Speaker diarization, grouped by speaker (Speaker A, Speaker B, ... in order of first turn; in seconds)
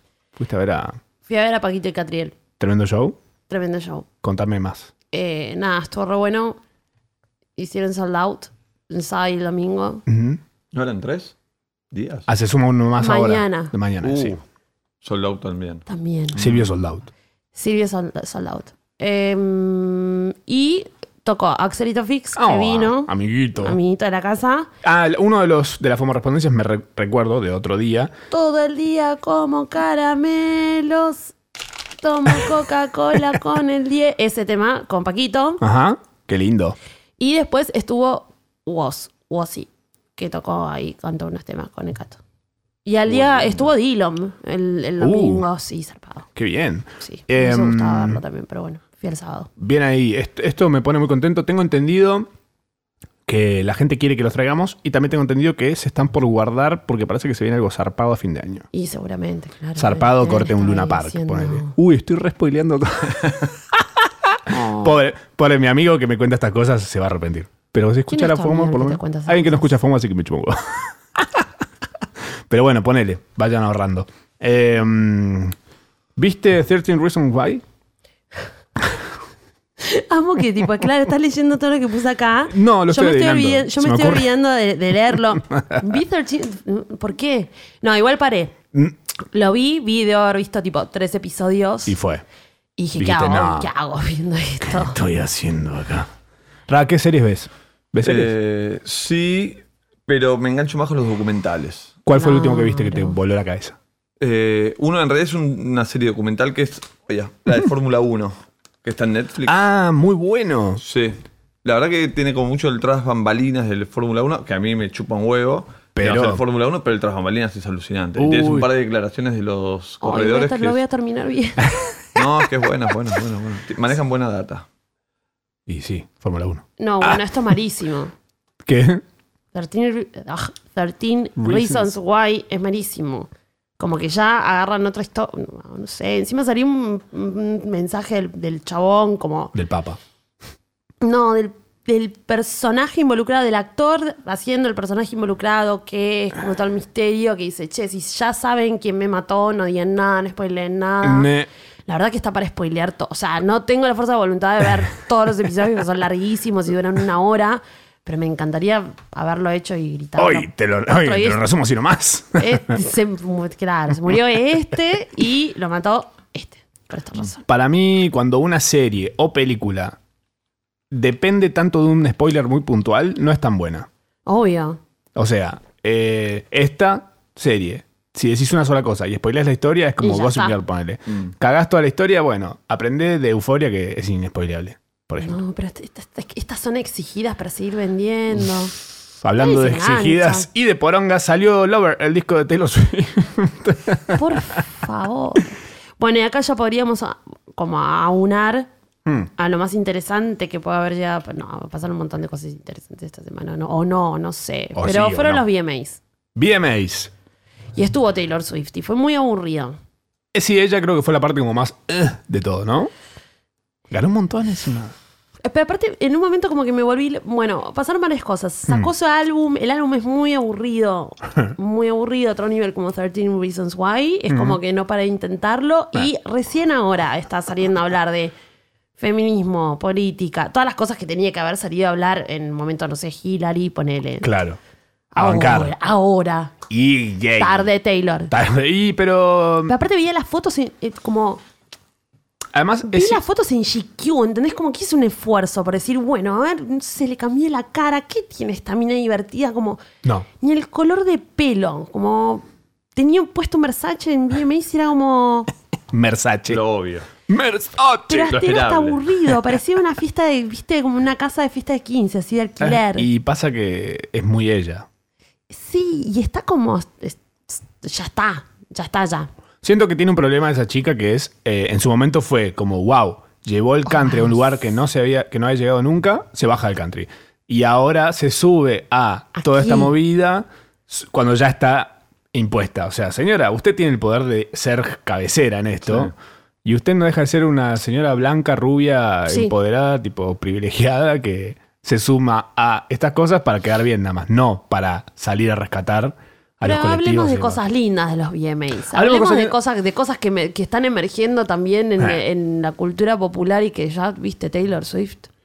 Speaker A: 0.4-1.0, 2.6-3.2, 4.2-4.9, 10.1-10.4, 12.3-14.4, 16.4-17.1, 22.4-23.8, 24.8-28.1, 35.6-36.8, 45.0-45.5, 46.4-48.2, 49.6-52.3, 53.3-58.7, 59.8-71.5, 72.5-75.5, 76.2-77.6, 82.5-84.3, 85.3-85.8, 91.9-92.2, 93.0-93.7, 94.6-96.1, 96.7-98.3, 102.1-103.8, 109.5-110.8, 116.0-116.4, 118.2-118.7, 125.7-127.5, 128.7-129.0, 131.4-131.8, 139.5-140.0, 151.0-151.5, 160.2-162.8, 167.5-170.0, 170.9-173.9, 175.2-185.4, 189.2-194.6, 204.8-205.4, 206.4-207.1, 210.3-212.9, 213.9-214.9, 224.3-224.6, 234.2-234.6, 235.2-235.7, 236.7-237.7, 238.3-239.7, 242.5-243.2, 255.9-256.6, 257.3-258.4, 262.6-264.9, 269.6-286.1, 286.6-297.6, 298.9-299.6
Speaker B: 1.3-2.4, 3.5-4.1, 5.1-6.6, 7.6-10.1, 13.0-13.7, 15.9-16.4, 17.6-24.7, 28.3-31.3, 32.0-35.6, 37.2-42.2, 42.9-46.3, 47.0-49.5, 58.7-61.7, 64.5-64.9, 68.1-69.7, 79.8-88.5, 89.3-92.0, 92.8-95.0, 102.2-103.2, 120.0-121.7, 126.8-128.1, 129.5-139.5, 141.0-151.3, 151.9-161.4, 162.4-167.4, 174.3-174.8, 180.0-180.6, 185.2-188.7, 189.4-190.5, 194.1-198.7, 199.4-206.0, 207.8-209.8, 215.4-228.3, 229.0-234.3, 235.1-236.5, 237.3-238.3, 239.7-241.4, 242.9-249.8, 250.4-255.5, 258.1-263.1, 265.5-269.3, 273.9-274.3, 279.4-279.9, 289.3-289.5, 296.6-305.3
Speaker C: 10.7-11.3, 11.9-12.3, 14.0-14.4, 15.0-15.8, 16.4-16.7, 43.1-43.6, 98.0-102.0, 104.2-109.6, 110.8-120.8, 122.2-124.7, 256.5-257.1, 258.3-259.0, 285.9-286.1